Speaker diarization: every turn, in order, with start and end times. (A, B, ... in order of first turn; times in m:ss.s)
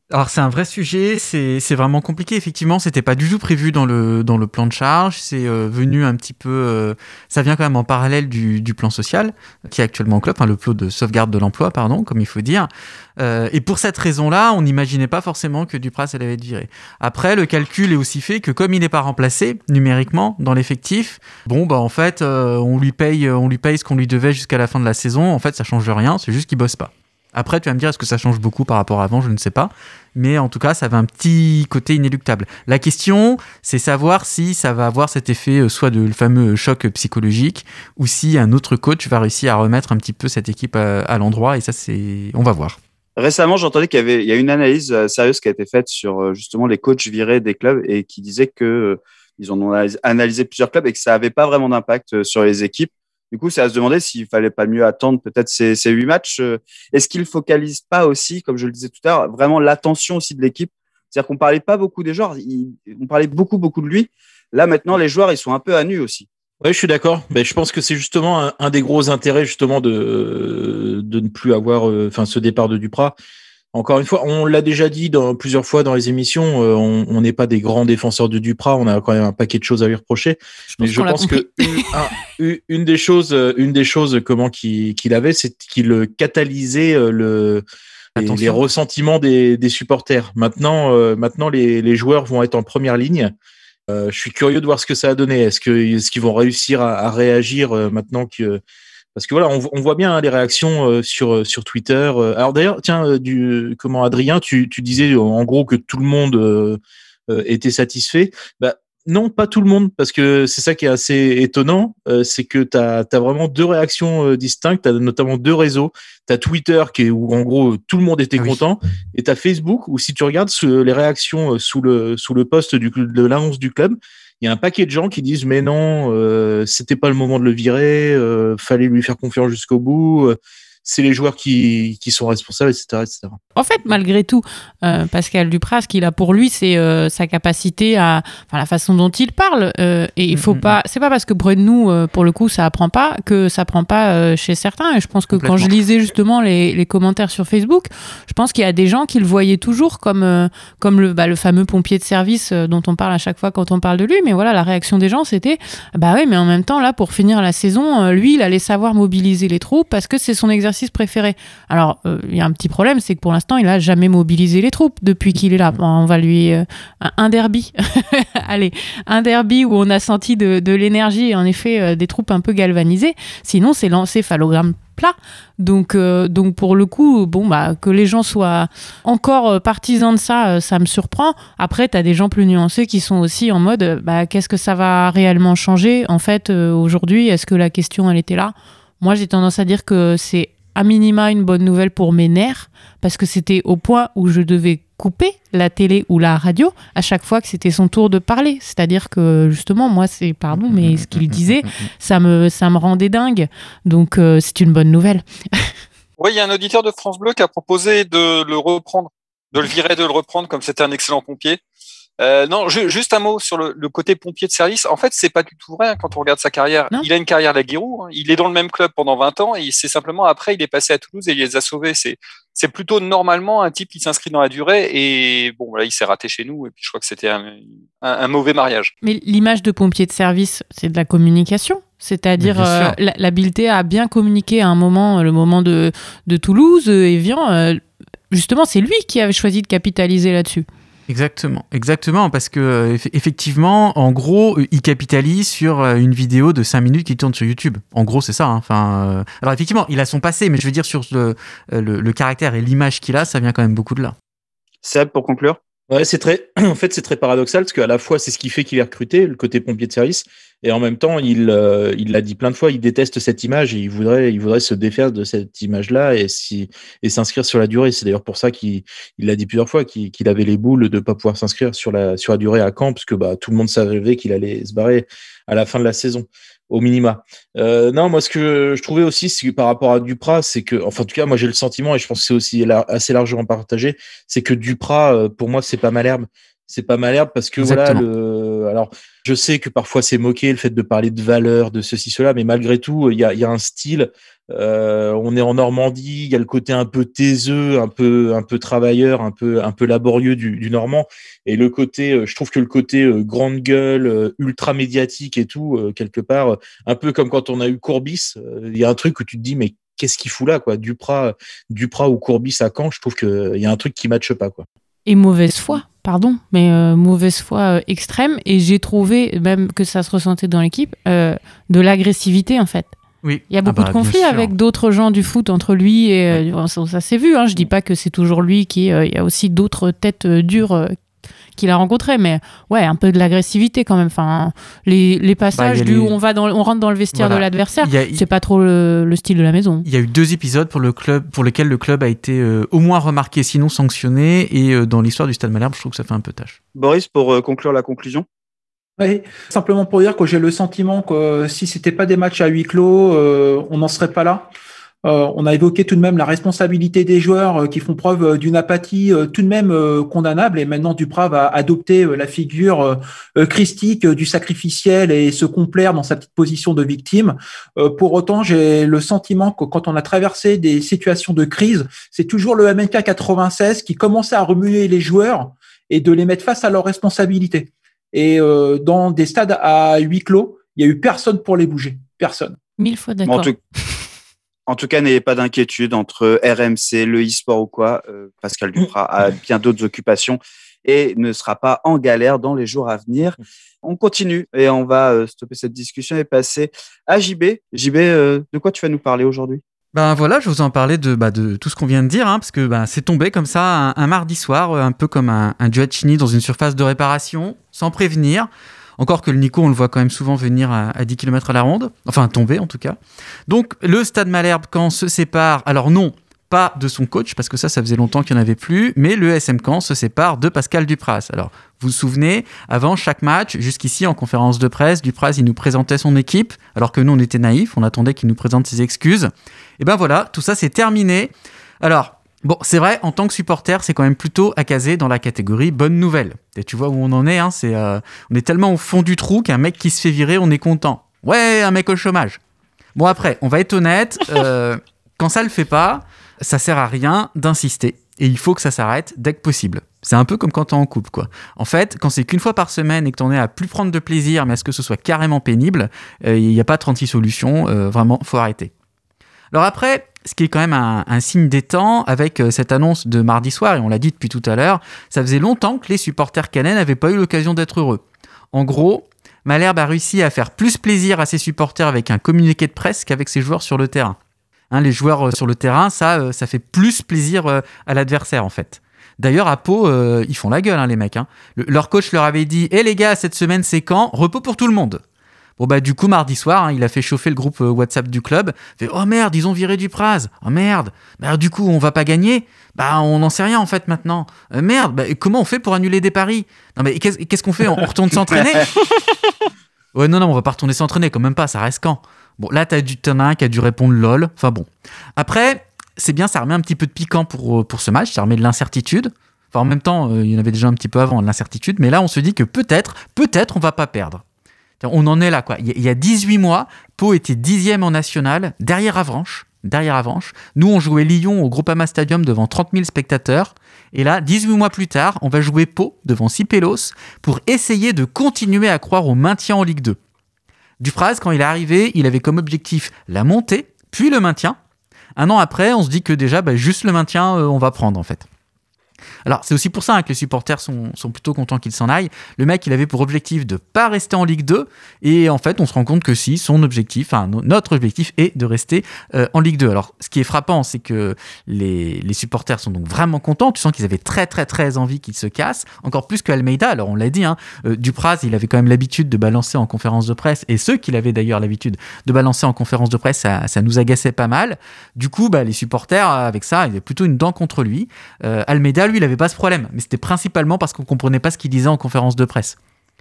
0:00.1-0:42.8 A
0:43.2-1:06.3 B
1:06.6-1:13.1 C
1:13.7-1:27.6 C
1:20.7-1:21.9 D
1:28.2-1:28.6 A
1:28.2-1:33.3 C
1:33.9-1:38.6 C
1:39.1-2:13.4 C
2:13.6-3:25.7 D
2:20.3-2:20.7 A
2:25.3-2:25.7 A
3:20.7-3:21.9 A
3:26.2-3:31.6 E
3:32.2-3:48.9 E
3:49.0-4:00.6 D
3:52.4-3:53.0 A
4:01.1-4:14.1 A
4:14.8-4:15.6 B
4:15.9-5:14.6 C
4:47.6-4:48.0 A
5:15.0-5:23.0 D
5:23.2-5:24.5 A
5:23.5-5:30.9 D
5:31.6-5:39.8 D
5:35.5-5:36.1 A
5:37.1-5:38.2 A
5:39.8-5:46.6 A
5:46.7-5:48.2 B
5:49.0-5:54.5 F
5:55.0-6:22.6 F
6:22.8-6:23.5 D
6:23.2-6:23.6 B
6:24.7-6:39.6 B
6:39.9-7:22.4 A
7:22.9-7:38.7 A
7:39.5-7:54.2 A
7:54.7-8:05.0 A
8:05.6-8:18.7 A
8:19.9-8:34.2 A
8:34.8-8:50.0 A
8:50.8-8:54.6 A
8:55.2-8:58.2 A
8:59.2-9:32.6 A